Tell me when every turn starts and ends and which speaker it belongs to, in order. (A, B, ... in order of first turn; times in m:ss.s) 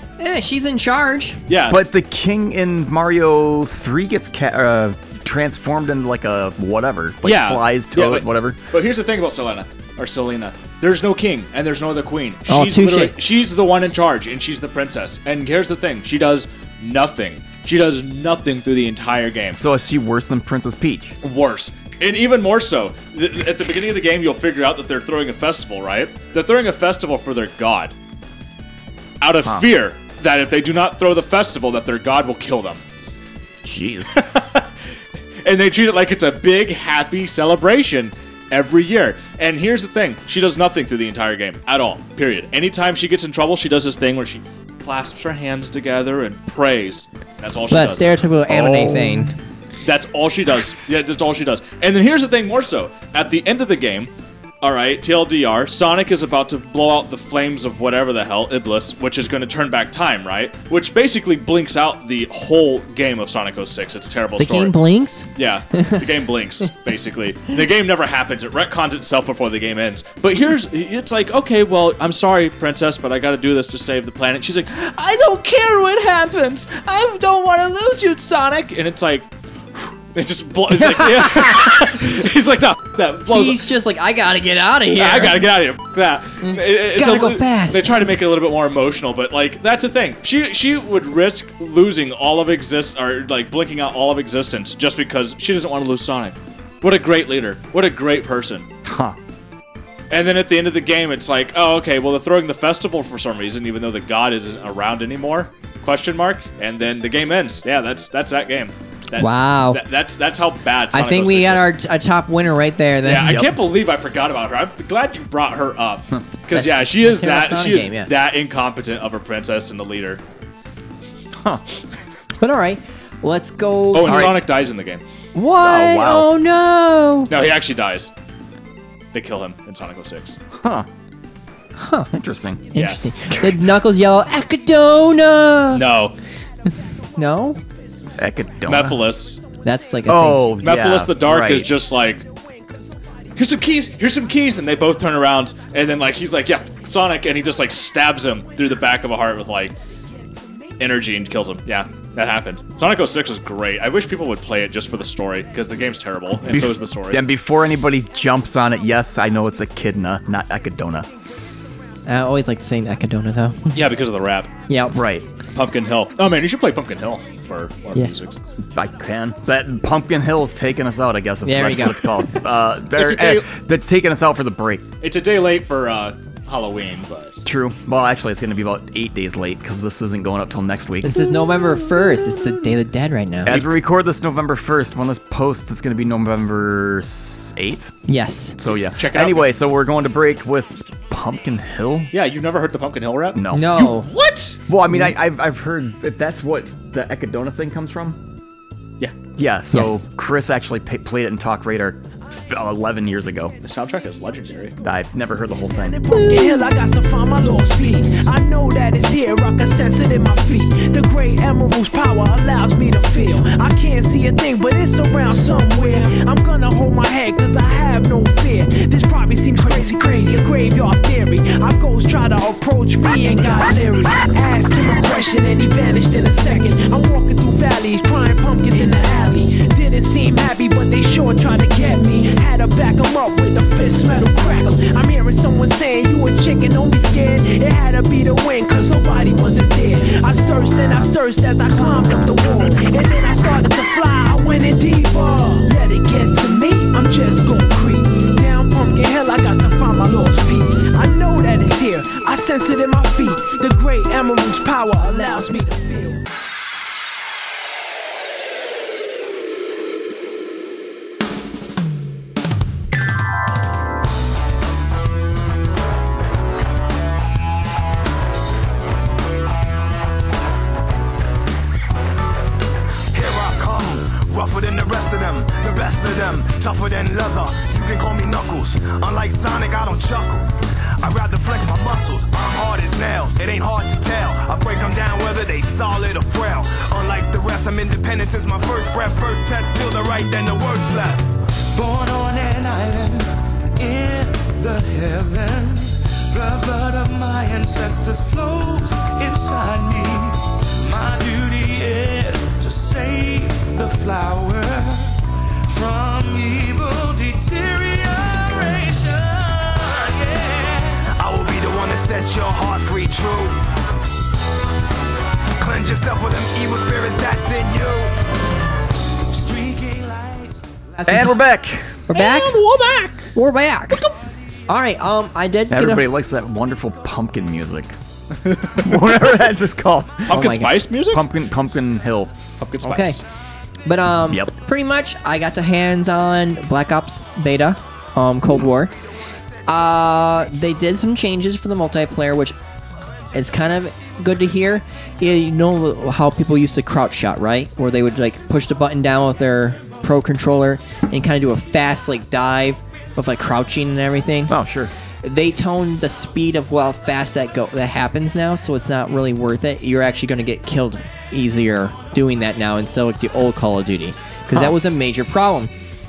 0:00.2-0:01.4 A
0:01.5-0:01.8 B
0:01.7-0:08.6 C
0:07.2-0:19.6 B
0:12.5-0:13.2 A
0:19.5-0:21.2 C
0:21.2-0:27.9 B
0:29.2-0:32.8 B
0:33.6-0:34.2 C
0:34.2-0:34.7 B
0:35.4-0:49.2 B
0:47.7-0:49.4 A
0:49.8-0:54.1 B
0:54.6-1:04.8 B
1:04.4-1:06.0 A
1:05.4-1:23.6 B
1:20.9-1:21.9 A
1:23.3-1:25.4 A
1:25.0-1:38.7 B
1:26.4-1:28.1 A
1:38.8-1:39.2 C
1:40.1-1:51.7 B
1:49.2-1:49.8 A
1:50.9-1:53.4 A
1:53.0-2:00.2 B
1:53.2-1:53.6 C
1:56.5-1:58.1 A
2:02.4-2:04.4 A
2:03.9-2:05.0 B
2:04.0-2:04.4 C
2:05.4-2:07.3 A
2:05.6-2:06.3 C
2:07.3-2:08.1 B
2:09.1-2:10.4 B
2:10.5-2:10.9 C
2:11.8-2:12.1 A
2:12.1-2:12.6 C
2:12.7-2:15.8 A
2:12.8-2:13.0 B
2:15.7-2:16.2 B
2:17.2-2:17.6 A
2:18.2-2:19.0 C
2:18.7-2:19.4 B
2:19.6-2:20.5 A
2:20.1-2:21.7 C
2:20.6-2:22.2 B
2:23.4-2:29.8 B
2:30.8-2:37.2 B
2:36.4-2:41.1 C
2:42.1-2:43.8 A
2:43.7-2:44.5 B
2:44.7-2:45.0 A
2:44.9-2:45.3 C
2:45.5-2:48.4 B
2:48.7-2:54.8 C
2:51.4-2:52.1 A
2:53.0-2:53.5 B
2:55.0-2:57.4 B
2:57.4-3:01.3 C
3:01.0-3:03.6 A
3:03.4-3:07.9 C
3:08.1-3:08.6 A
3:08.6-3:12.1 C
3:08.9-3:09.7 B
3:12.1-3:14.6 B
3:13.4-3:13.8 C
3:13.5-3:14.1 A
3:14.7-3:18.2 C
3:19.4-3:23.6 C
3:19.7-3:20.0 A
3:23.6-3:24.8 B
3:24.8-3:26.0 C
3:25.7-4:16.2 D
3:26.1-3:26.6 A
4:33.1-4:51.3 E
4:51.7-5:11.1 F
5:11.1-5:13.6 E
5:15.6-5:18.2 E
5:19.3-5:20.8 F
5:21.0-5:21.4 A
5:21.1-5:22.0 C
5:22.1-5:22.6 A
5:22.1-5:23.3 B
5:23.3-5:24.0 A
5:24.7-5:26.1 A
5:25.7-5:28.0 C
5:28.5-5:29.1 B
5:28.7-5:30.4 C
5:30.3-5:31.3 B
5:30.3-5:30.8 A
5:31.1-5:32.3 C
5:32.6-5:33.2 B
5:32.8-5:33.2 A
5:33.8-5:38.9 A
5:39.7-5:42.6 A
5:43.3-5:54.6 A
5:54.5-5:54.9 C
5:55.2-6:05.7 A